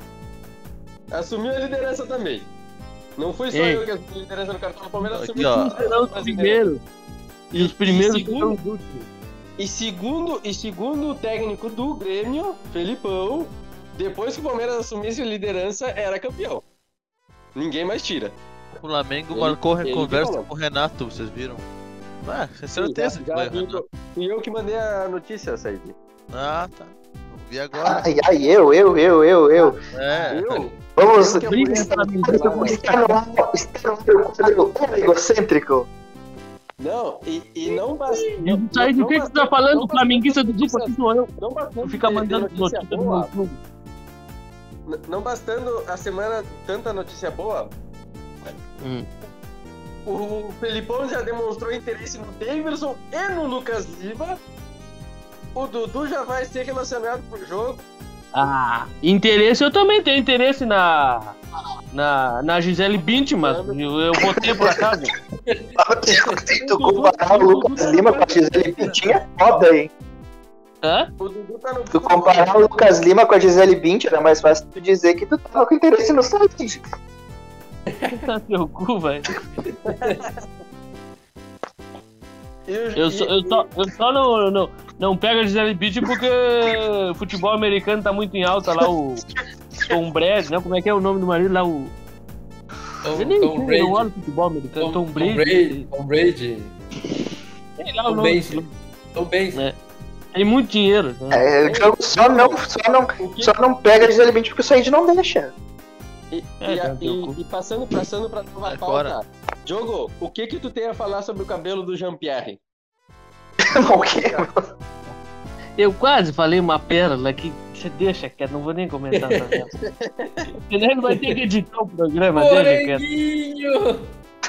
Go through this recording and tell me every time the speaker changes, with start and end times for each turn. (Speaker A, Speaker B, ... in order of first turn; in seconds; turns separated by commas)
Speaker A: 1.1-2.5, Speaker A: 3.2-6.6, Speaker B: 3.5-3.8, Speaker C: 5.1-5.8, Speaker B: 5.6-6.8, Speaker A: 7.5-8.6, Speaker B: 7.5-9.1, Speaker A: 9.6-16.6, Speaker A: 17.6-18.4, Speaker C: 18.8-21.7, Speaker A: 19.3-20.5, Speaker C: 22.2-23.8, Speaker A: 22.8-26.0, Speaker C: 26.3-28.0, Speaker D: 27.7-29.8, Speaker C: 29.9-30.7, Speaker A: 30.3-32.9, Speaker D: 31.0-35.9, Speaker B: 31.4-32.8, Speaker A: 36.8-43.3, Speaker B: 38.2-41.3, Speaker B: 41.8-43.6, Speaker A: 44.9-47.7, Speaker B: 48.8-49.1, Speaker A: 50.1-54.4, Speaker A: 55.5-57.8, Speaker B: 58.3-61.4, Speaker B: 61.9-65.2, Speaker A: 63.4-63.8, Speaker D: 64.5-64.8, Speaker E: 65.5-66.4, Speaker D: 65.8-69.9, Speaker A: 66.8-68.2, Speaker B: 66.8-68.2, Speaker B: 70.8-71.1, Speaker A: 71.2-72.7, Speaker D: 71.9-76.8, Speaker B: 78.1-79.3, Speaker A: 79.8-80.4, Speaker A: 82.7-83.7, Speaker B: 83.0-89.2, Speaker B: 89.9-91.9, Speaker E: 93.0-94.1, Speaker B: 93.2-95.9, Speaker E: 94.8-96.7, Speaker B: 97.8-98.7, Speaker E: 98.1-99.6, Speaker B: 100.3-101.5, Speaker D: 101.3-105.5, Speaker A: 101.6-102.6, Speaker A: 103.2-103.5, Speaker A: 106.3-112.6, Speaker B: 106.6-107.4, Speaker C: 108.7-109.2, Speaker D: 113.7-114.6, Speaker A: 114.1-114.5, Speaker B: 115.8-119.7, Speaker A: 119.8-120.5, Speaker B: 120.7-123.0, Speaker E: 121.1-121.3, Speaker E: 122.3-124.1